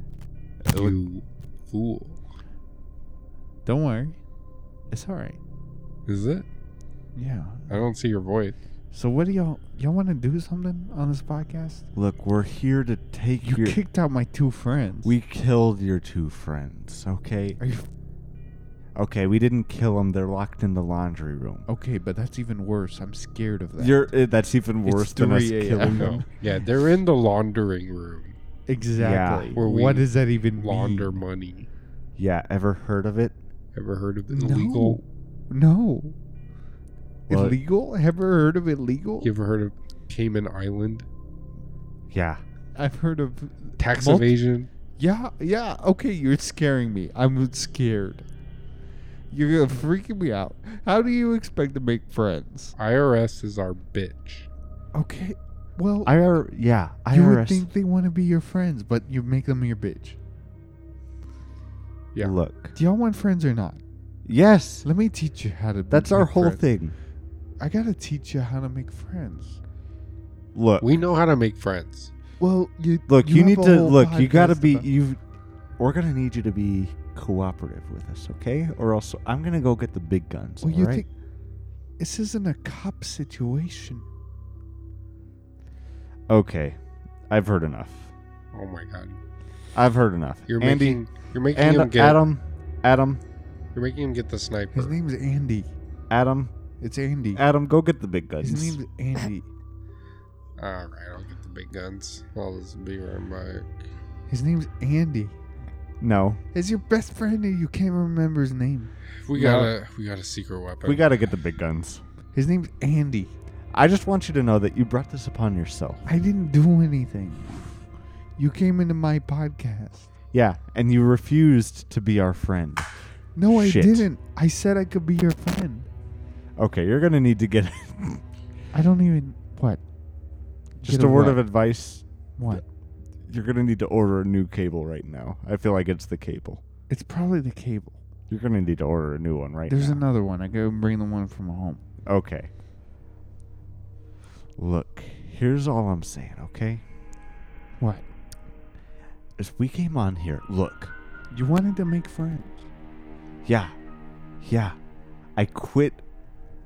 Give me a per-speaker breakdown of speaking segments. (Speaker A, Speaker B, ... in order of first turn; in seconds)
Speaker A: 0.7-2.2, 6.1-6.5, 7.7-8.6, 25.8-28.4, 29.6-31.7, 33.7-35.0, 39.2-41.1, 43.8-44.7, 52.8-54.5, 70.8-72.1, 88.5-89.2, 90.5-92.2, 93.7-95.0, 100.6-103.7, 109.2-111.1
Speaker B: 3.6-4.2, 4.9-5.4, 7.2-7.7, 8.9-11.8, 13.4-15.1, 17.6-17.9, 21.7-24.1, 24.9-26.3, 28.7-31.1, 34.3-36.1, 37.3-39.3, 42.7-44.4, 45.0-48.2, 49.3-52.7, 54.9-56.1, 57.1-60.2, 62.7-63.8, 64.8-66.6, 67.6-69.6, 72.4-74.9, 80.6-81.1, 82.0-84.0, 94.7-95.7, 96.8-97.4, 98.4-99.5, 104.3-105.3, 106.5-109.7, 112.3-113.3, 116.0-117.7, 118.4-120.1, 123.3-125.9, 128.7-129.8, 130.8-131.4, 132.4-132.6, 136.9-138.0, 139.7-141.8, 147.8-148.0, 151.3-152.7
Speaker C: 11.9-13.8, 15.0-17.6, 18.9-21.6, 23.8-26.2, 29.0-29.6, 32.2-33.3, 37.3-37.6, 42.1-42.4, 56.0-57.6, 62.2-62.7, 64.2-64.8, 65.9-66.9, 70.5-70.9, 73.1-75.2, 75.8-81.0, 86.3-88.1, 89.7-93.2, 96.1-96.5, 97.3-98.8, 106.0-106.4, 110.8-112.0, 113.7-116.0, 120.3-122.9, 123.5-124.1, 126.6-128.2, 130.8-132.6, 133.3-136.6, 138.3-140.0, 142.1-142.5, 144.6-146.8, 149.4-150.9, 153.4-153.7, 154.4-154.8, 155.3-156.0